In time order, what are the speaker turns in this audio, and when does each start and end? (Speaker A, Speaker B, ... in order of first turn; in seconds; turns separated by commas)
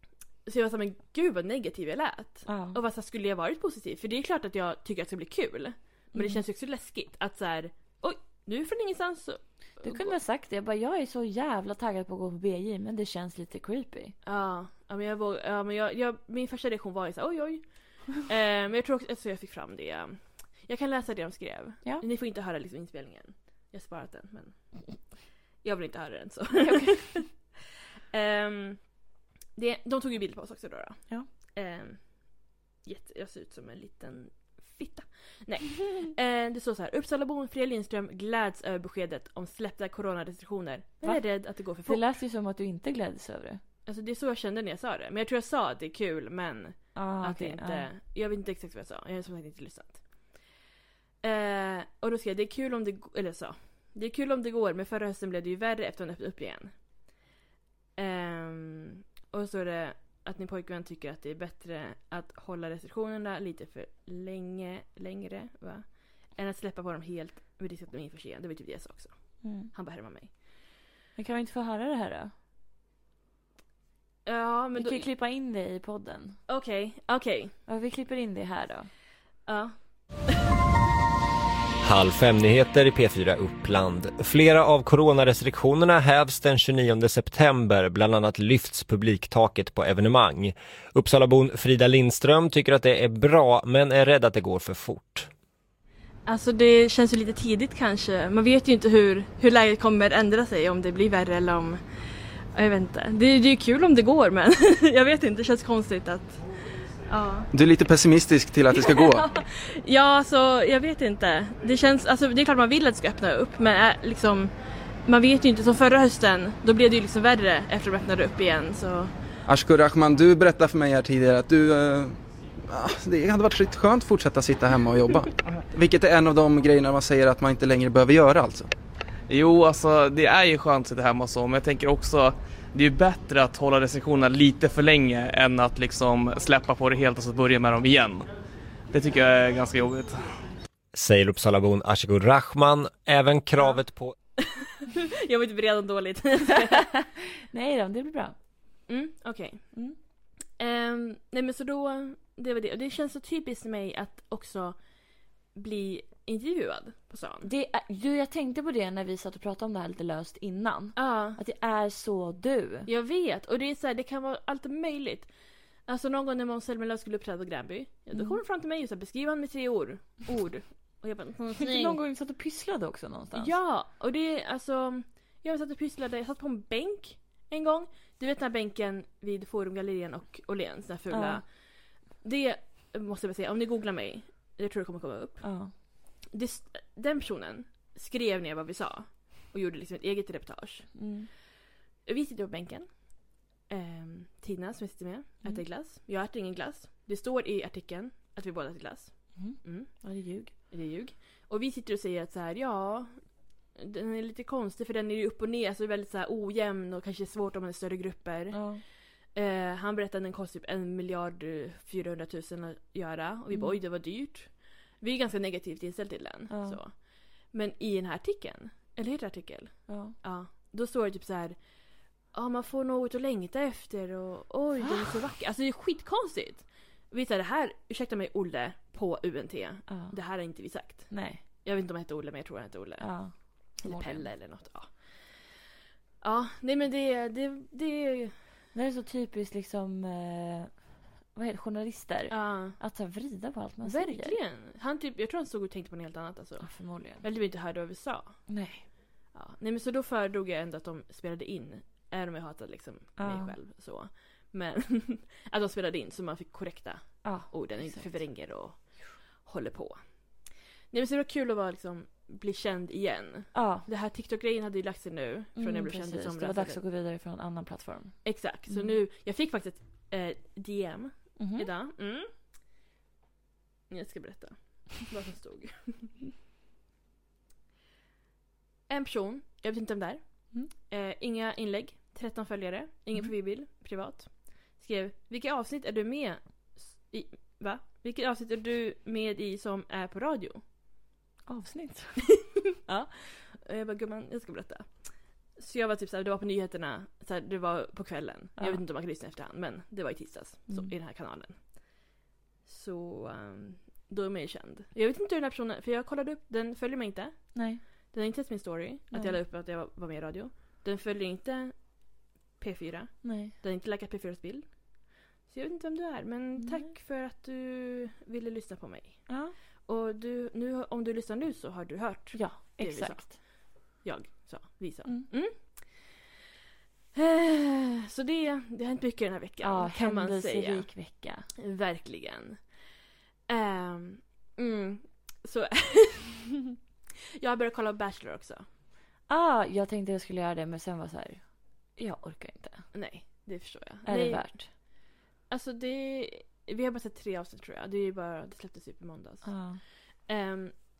Speaker A: 0.5-10.2, Speaker B: 2.5-2.8, Speaker B: 6.2-6.4, Speaker B: 9.8-14.2, Speaker A: 14.2-24.7, Speaker A: 25.6-27.4, Speaker B: 26.6-27.2, Speaker A: 28.1-28.9, Speaker A: 29.6-32.2, Speaker A: 32.8-42.0, Speaker B: 41.8-43.6, Speaker A: 43.9-50.0, Speaker B: 47.0-47.9, Speaker A: 51.2-56.7, Speaker A: 58.0-70.3, Speaker B: 69.4-69.7, Speaker B: 71.2-72.3, Speaker A: 74.2-75.1, Speaker B: 74.8-76.4, Speaker A: 76.5-77.5, Speaker B: 77.7-78.9, Speaker A: 79.5-79.8, Speaker C: 81.8-95.3, Speaker A: 96.3-101.8, Speaker A: 102.5-106.4, Speaker A: 107.1-107.5, Speaker D: 107.5-109.3, Speaker A: 108.7-114.5, Speaker A: 115.0-119.1, Speaker D: 119.5-122.2, Speaker D: 122.7-128.7, Speaker E: 129.3-138.3, Speaker E: 138.9-140.2, Speaker C: 140.9-144.2, Speaker A: 144.4-147.0, Speaker B: 146.5-148.3, Speaker A: 148.9-149.7, Speaker A: 150.6-154.8, Speaker A: 155.5-157.5, Speaker B: 157.4-162.9, Speaker A: 161.0-161.4, Speaker A: 162.9-165.3, Speaker A: 165.9-172.0, Speaker B: 168.1-168.4, Speaker B: 171.6-173.5, Speaker A: 173.3-181.5, Speaker B: 181.1-181.4, Speaker A: 182.2-185.5, Speaker B: 185.4-185.7, Speaker A: 186.3-190.9, Speaker B: 190.9-191.3, Speaker A: 192.1-193.0, Speaker A: 193.7-199.9, Speaker B: 199.4-200.5, Speaker A: 200.7-203.2, Speaker A: 203.8-208.6, Speaker B: 208.5-208.8, Speaker A: 209.3-221.6, Speaker B: 213.5-213.8, Speaker B: 216.5-216.8, Speaker B: 219.9-220.2, Speaker A: 222.3-233.1, Speaker B: 224.8-225.2, Speaker B: 229.9-230.2, Speaker B: 231.1-231.4, Speaker B: 233.0-234.3, Speaker A: 233.7-234.9, Speaker A: 236.2-238.4, Speaker B: 238.7-244.4, Speaker A: 242.3-242.8, Speaker A: 243.8-248.4, Speaker B: 246.6-247.2, Speaker B: 248.5-248.8, Speaker A: 249.3-260.1, Speaker B: 253.2-253.6, Speaker B: 257.2-258.2, Speaker A: 260.9-266.8, Speaker B: 263.5-263.9, Speaker B: 265.6-269.0, Speaker A: 268.2-272.3, Speaker B: 271.4-271.7, Speaker A: 273.9-276.2, Speaker A: 278.9-290.6, Speaker B: 291.5-292.2, Speaker A: 292.9-294.9, Speaker A: 295.6-301.6, Speaker A: 302.7-307.6, Speaker B: 307.5-307.8, Speaker A: 308.1-311.8, Speaker B: 309.1-309.4, Speaker A: 312.6-314.7, Speaker B: 313.2-313.5, Speaker A: 315.5-319.3, Speaker B: 316.6-316.9, Speaker B: 319.3-319.6, Speaker A: 319.9-326.2, Speaker B: 322.3-323.4, Speaker A: 327.1-330.9, Speaker B: 329.6-331.5, Speaker A: 331.6-332.6, Speaker A: 333.5-336.8, Speaker A: 337.4-338.7, Speaker B: 339.3-341.4, Speaker B: 342.0-342.9, Speaker A: 342.9-344.5, Speaker B: 344.1-344.7, Speaker A: 345.5-349.6, Speaker B: 349.4-349.8, Speaker A: 350.2-350.8